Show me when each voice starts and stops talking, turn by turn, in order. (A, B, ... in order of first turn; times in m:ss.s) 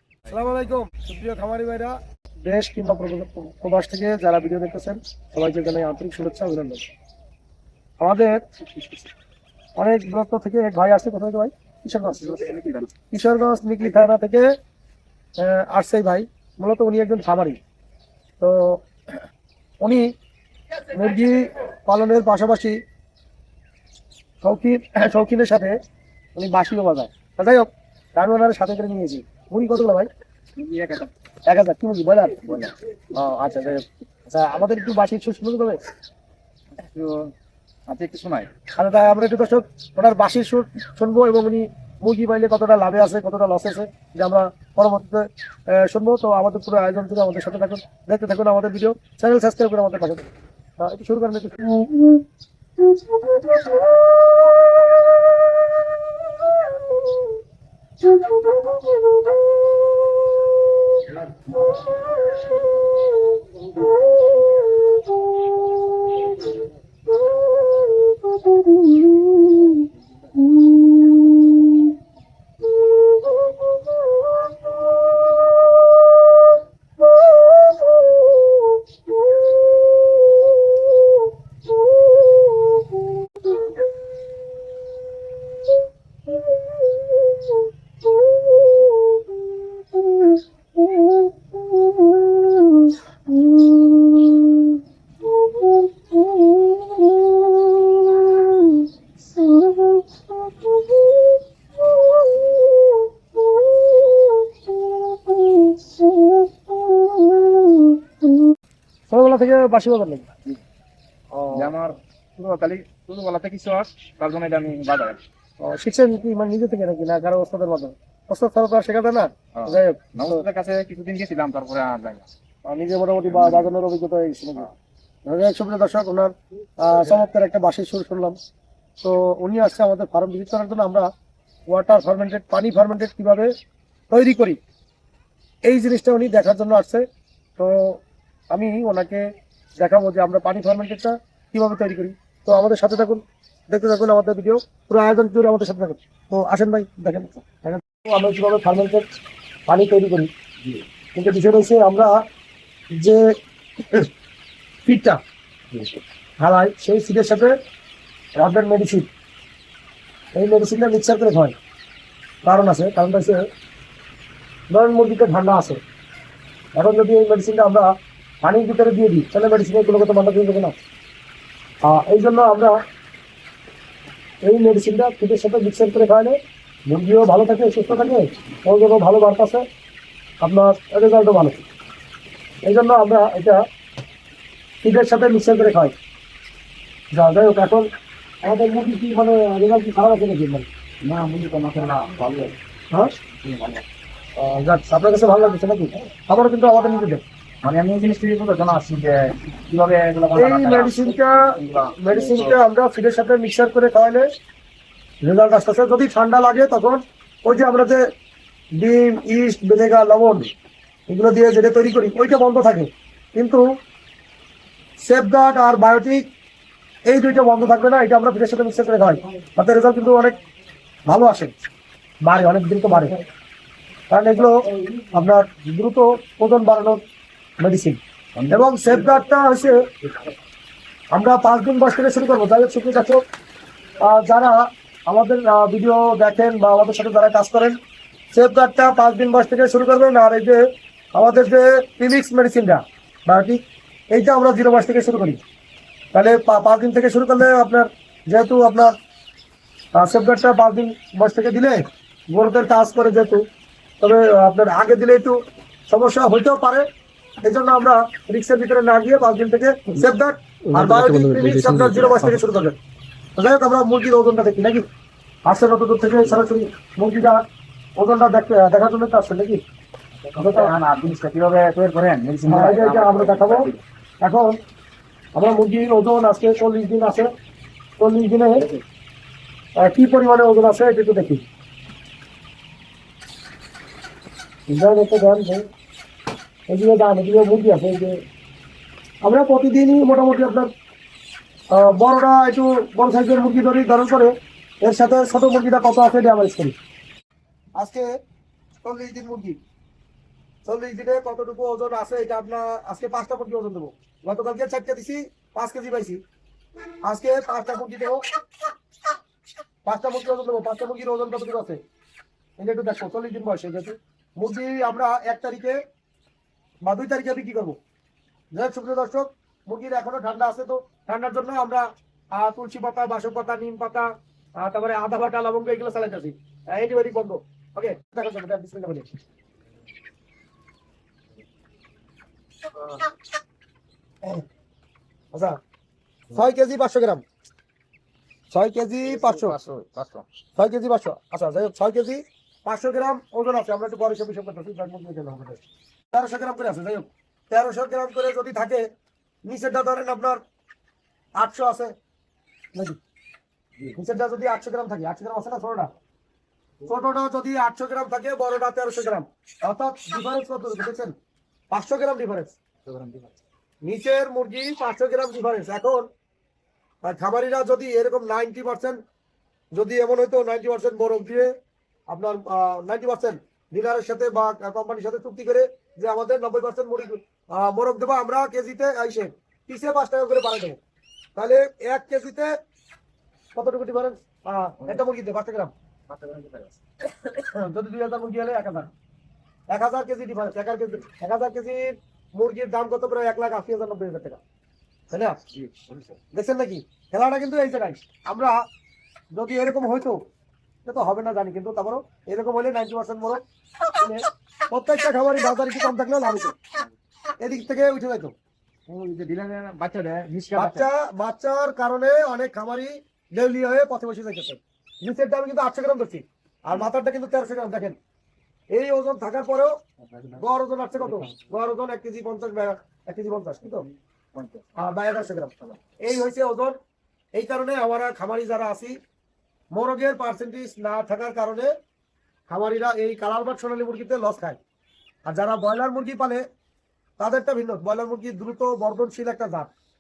0:00.3-0:06.8 A
0:08.0-0:09.0 A
0:09.8-0:14.5 A
0:12.3-0:12.9 B
0:15.4-0:17.6 A
0:18.4-0:18.8 A
0:19.8-0:20.1 A
0:20.9-0:22.8 A
0:24.4-0:25.8 A
0:26.4-0:30.1 A
0:30.6-0:31.1 B
0:31.5-0:35.8 A
0:36.8-0:37.3 B
0:37.9-0:38.5 B
0:38.8-0:50.3 A
0:50.8-0:51.9 A
1:49.1-1:50.3 A
1:51.3-1:51.7 A
1:51.5-1:55.2 B
1:55.6-2:00.4 A
1:59.6-2:02.3 B
2:02.7-2:04.7 A
2:03.3-2:03.7 B
2:05.3-2:08.4 A
2:09.0-2:11.1 A
2:11.7-2:13.5 A
2:14.1-2:14.6 A
2:15.7-2:17.0 A
2:17.6-2:18.0 A
2:18.5-2:19.2 A
2:19.8-2:29.1 A
2:29.7-2:30.3 A
2:31.2-2:32.2 A
2:33.0-2:33.3 A
2:34.8-2:35.2 A
2:36.4-2:37.6 A
2:38.4-2:39.1 A
2:40.4-2:41.6 A
2:42.5-2:43.5 A
2:44.7-2:45.8 A
2:46.8-2:47.9 A
2:48.4-2:50.8 A
2:51.8-2:52.8 A
2:54.4-2:56.4 A
2:56.9-2:59.6 A
3:00.4-3:01.6 A
3:02.7-3:03.6 A
3:04.8-3:05.9 A
3:07.1-3:07.9 A
3:08.4-3:10.7 A
3:11.0-3:12.6 B
3:13.4-3:13.8 B
3:14.4-3:17.2 A
3:17.6-3:22.6 B
3:20.4-3:24.3 A
3:25.2-3:28.0 A
3:28.8-3:30.5 A
3:31.1-3:33.6 A
3:35.0-3:36.2 A
3:37.1-3:40.4 A
3:41.1-3:41.5 A
3:42.2-3:43.2 A
3:44.1-3:47.0 A
3:47.6-3:49.9 A
3:48.4-3:48.9 B
3:51.1-3:53.2 A
3:54.0-3:57.8 A
3:58.3-4:00.6 A
4:01.2-4:05.4 A
4:06.1-4:08.9 A
4:10.0-4:13.4 A
4:14.0-4:16.9 A
4:17.4-4:22.8 A
4:23.4-4:24.8 A
4:25.5-4:27.4 A
4:28.0-4:29.6 A
4:30.3-4:33.8 B
4:30.4-4:30.7 A
4:32.5-4:33.7 A
4:34.2-4:34.6 A
4:35.4-4:37.3 A
4:38.0-4:38.7 A
4:39.8-4:41.4 A
4:44.7-4:45.7 A
4:46.7-4:48.2 A
4:49.2-4:50.7 A
4:51.7-4:56.8 A
4:57.8-4:58.1 A
4:58.8-4:59.6 A
5:00.7-5:06.2 A
5:07.1-5:08.2 A
5:09.8-5:11.8 A
5:12.6-5:15.8 A
5:16.8-5:17.8 A
5:18.6-5:29.1 A
5:35.3-5:35.6 A
5:36.3-5:37.2 A
5:38.5-5:39.6 A
5:39.0-5:40.3 B
5:40.6-5:45.6 A
5:46.1-5:48.8 A
5:49.5-5:50.4 A
5:51.4-5:51.9 A
5:53.9-5:55.9 A
5:56.8-6:01.2 A
6:01.7-6:02.6 A
6:02.8-6:03.3 B
6:03.8-6:06.1 A
6:07.0-6:09.0 A
6:09.8-6:11.5 A
6:12.1-6:20.8 A
6:21.4-6:22.5 A
6:23.6-6:25.7 A
6:26.1-6:26.8 B
6:27.2-6:28.9 A
6:29.7-6:34.4 A
6:35.1-6:35.4 A
6:35.6-6:36.2 B
6:36.3-6:38.6 A
6:39.3-6:40.2 A
6:40.8-6:43.4 A
6:43.9-6:46.6 A
6:47.4-6:48.3 A
6:48.9-6:50.9 B
6:50.6-6:58.0 A
6:58.7-6:59.8 A
7:00.1-7:00.4 B
7:00.3-7:03.9 A
7:01.0-7:01.3 B
7:04.4-7:04.6 B
7:04.8-7:06.8 A
7:07.4-7:09.0 A
7:09.7-7:11.7 A
7:12.5-7:14.6 A
7:15.3-7:16.4 A
7:17.2-7:19.7 A